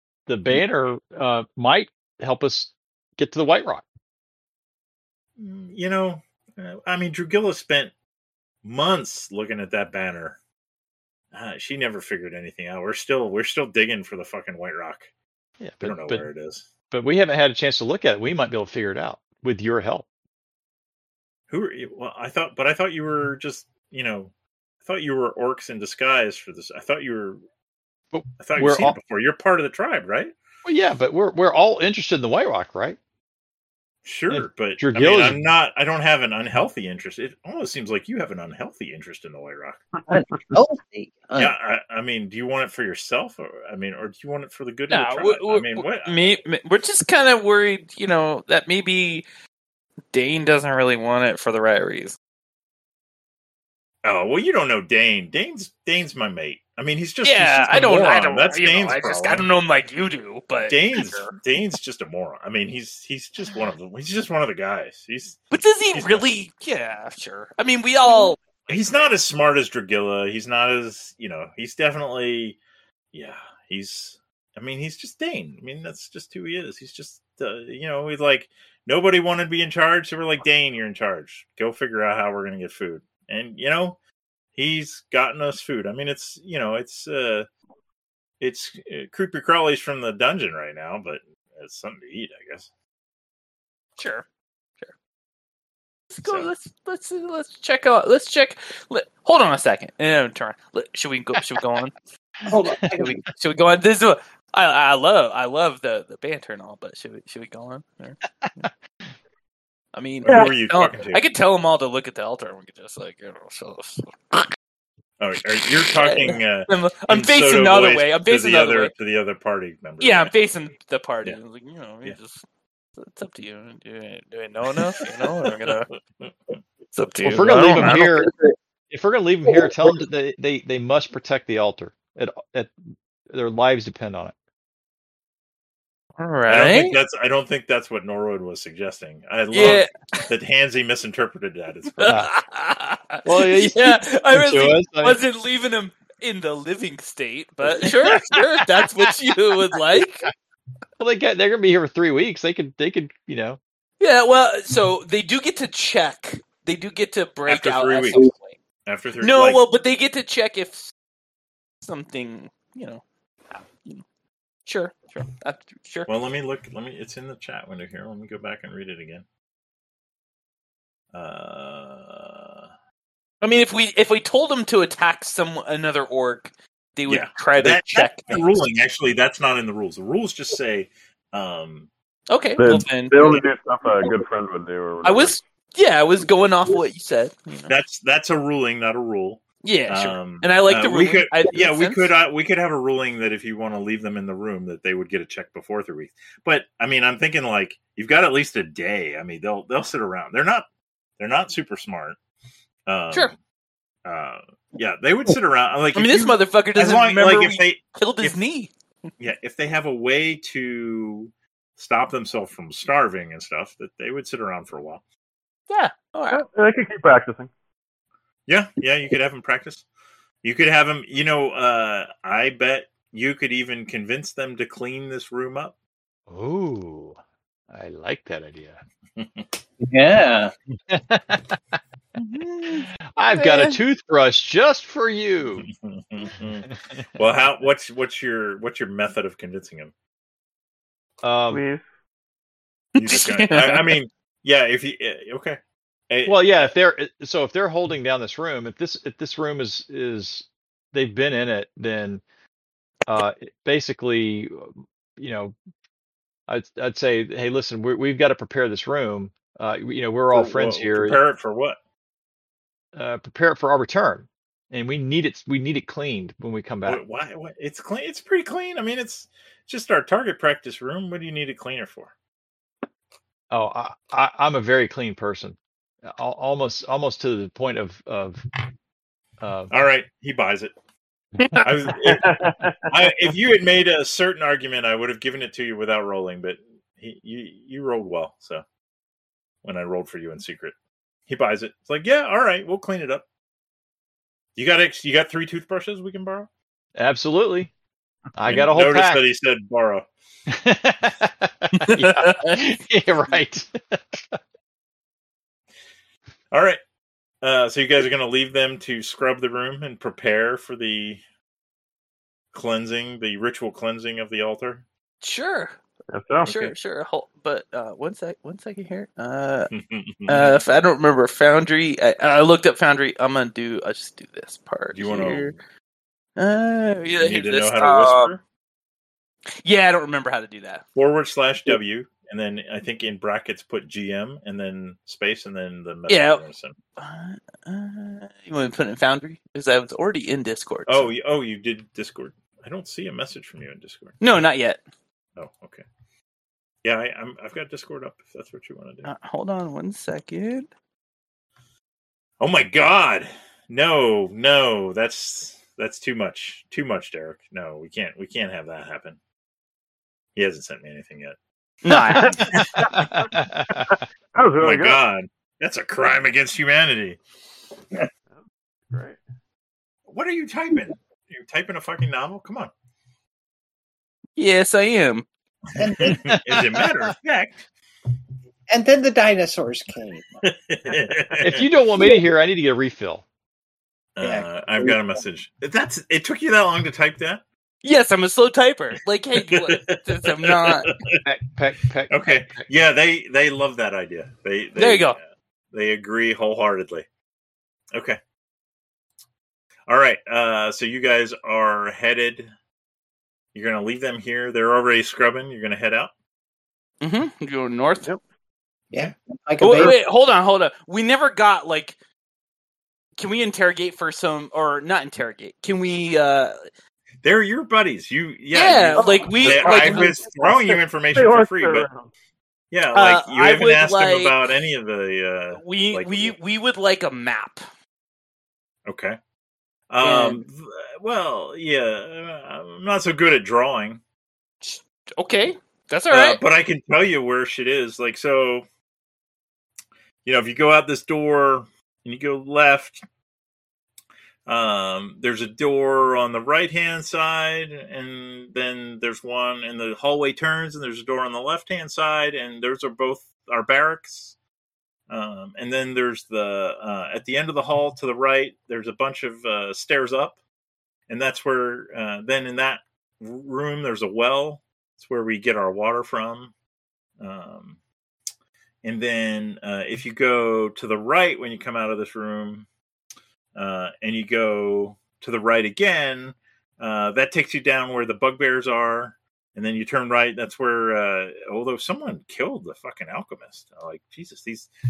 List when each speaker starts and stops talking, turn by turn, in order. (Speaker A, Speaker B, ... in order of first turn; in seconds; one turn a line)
Speaker A: 0.3-3.8
Speaker B: 5.4-7.9
Speaker B: 8.6-10.4
Speaker B: 11.3-15.1
Speaker A: 15.6-16.2
Speaker B: 15.8-16.7
Speaker A: 16.9-20.1
Speaker B: 21.5-24.3
Speaker B: 24.8-27.4
Speaker A: 28.1-29.0
Speaker B: 28.4-30.3
Speaker A: 30.6-33.0
Speaker B: 34.0-39.8
Speaker A: 34.3-35.4
Speaker C: 40.1-41.5
Speaker B: 41.4-46.3
Speaker D: 44.9-49.2
Speaker D: 50.1-52.2
Speaker B: 54.0-59.5
Speaker D: 57.2-61.3
Speaker B: 60.6-66.2
Speaker D: 65.5-69.1
Speaker B: 68.7-72.6
Speaker B: 73.1-84.0
Speaker B: 84.5-87.5
Speaker B: 88.4-92.7
Speaker D: 94.0-94.2
Speaker D: 96.1-101.9
Speaker B: 96.2-96.5
Speaker C: 102.5-103.2
Speaker D: 102.9-108.7
Speaker D: 109.9-114.5
Speaker B: 110.2-111.2
Speaker B: 115.2-120.3
Speaker D: 115.8-118.9
Speaker D: 120.0-122.4
Speaker D: 123.0-125.9
Speaker B: 125.0-125.3
Speaker D: 126.9-128.1
Speaker A: 127.2-128.3
Speaker A: 128.9-132.7
Speaker C: 129.5-130.0
Speaker A: 133.3-134.3
Speaker D: 136.2-137.0
Speaker B: 136.5-142.2
Speaker D: 139.5-139.9
Speaker D: 142.0-150.3
Speaker A: 142.0-142.3
Speaker A: 143.2-145.2
Speaker A: 147.7-149.1
Speaker A: 151.0-153.6
Speaker D: 154.0-158.6
Speaker B: 157.5-158.2
Speaker B: 158.8-159.6
Speaker D: 159.2-160.9
Speaker D: 161.8-163.0
Speaker D: 164.7-166.1
Speaker B: 166.1-169.2
Speaker B: 171.1-172.7
Speaker D: 173.4-178.4
Speaker B: 177.1-181.9
Speaker D: 182.3-183.4
Speaker E: 182.6-185.4
Speaker D: 185.0-187.7
Speaker B: 187.7-200.7
Speaker D: 189.6-192.1
Speaker B: 201.2-202.2
Speaker B: 202.8-203.4
Speaker B: 204.0-208.4
Speaker D: 205.9-208.7
Speaker B: 209.2-215.0
Speaker D: 215.7-216.4
Speaker E: 216.3-217.5
Speaker B: 218.5-219.8
Speaker B: 220.4-225.7
Speaker A: 226.3-227.2
Speaker A: 227.7-228.8
Speaker B: 229.2-229.5
Speaker C: 229.8-230.5
Speaker A: 230.9-231.8
Speaker D: 232.2-233.8
Speaker A: 233.1-235.7
Speaker B: 235.5-239.9
Speaker A: 236.4-237.2
Speaker A: 241.2-241.6
Speaker E: 241.5-241.8
Speaker B: 242.9-246.7
Speaker D: 243.0-243.9
Speaker A: 246.2-252.2
Speaker A: 253.1-255.5
Speaker A: 256.5-261.2
Speaker B: 260.3-261.8
Speaker A: 262.9-267.0
Speaker B: 266.9-272.1
Speaker A: 273.5-278.4
Speaker A: 279.4-279.7
Speaker B: 279.7-280.7
Speaker B: 281.6-288.6
Speaker E: 282.0-283.1
Speaker B: 289.6-290.7
Speaker B: 291.3-293.2
Speaker B: 294.6-296.5
Speaker A: 296.9-297.7
Speaker A: 298.3-299.2
Speaker B: 298.5-300.1
Speaker A: 300.5-304.4
Speaker D: 301.7-302.6
Speaker B: 306.5-306.8
Speaker B: 307.4-311.2
Speaker B: 312.5-314.8
Speaker D: 315.2-315.8
Speaker E: 316.1-316.5
Speaker B: 316.4-316.7
Speaker D: 316.4-319.7
Speaker B: 319.7-320.6
Speaker D: 320.3-325.6
Speaker B: 324.9-325.6
Speaker D: 326.4-328.3
Speaker B: 327.2-328.4
Speaker D: 329.6-330.8
Speaker B: 330.9-336.8
Speaker D: 336.1-336.4
Speaker D: 337.0-341.1
Speaker B: 340.9-344.2
Speaker D: 344.2-344.8
Speaker B: 345.4-345.8
Speaker B: 346.8-349.1
Speaker D: 349.0-350.7
Speaker B: 352.4-359.2
Speaker B: 360.4-361.4
Speaker D: 361.8-362.5
Speaker A: 361.9-364.0
Speaker E: 362.2-365.0
Speaker B: 362.4-362.9
Speaker B: 364.6-367.2
Speaker E: 368.9-369.2
Speaker B: 370.1-372.7
Speaker D: 374.4-375.3
Speaker B: 375.7-377.6
Speaker C: 375.8-376.3
Speaker A: 376.1-376.9
Speaker C: 378.7-380.4
Speaker B: 380.4-381.7
Speaker A: 381.4-383.2
Speaker B: 384.1-387.4
Speaker C: 384.2-385.0
Speaker D: 387.8-390.9
Speaker B: 389.5-391.2
Speaker A: 391.2-392.4
Speaker B: 392.1-397.1
Speaker D: 394.8-395.2
Speaker B: 397.9-398.2
Speaker B: 399.9-402.5
Speaker B: 403.5-406.1
Speaker D: 407.0-408.1
Speaker C: 408.9-409.9
Speaker D: 409.6-411.9
Speaker D: 413.2-416.6
Speaker B: 417.2-421.9
Speaker D: 418.5-420.1
Speaker E: 419.0-422.1
Speaker B: 422.7-426.4
Speaker D: 422.9-424.4
Speaker D: 425.5-427.6
Speaker B: 428.9-429.2
Speaker B: 429.9-434.0
Speaker D: 430.0-430.4
Speaker D: 434.6-436.4
Speaker B: 436.1-438.6
Speaker B: 440.2-443.0
Speaker B: 444.4-454.4
Speaker B: 455.1-460.4
Speaker B: 461.1-466.5
Speaker B: 467.2-467.8
Speaker B: 468.8-472.7
Speaker B: 473.5-484.7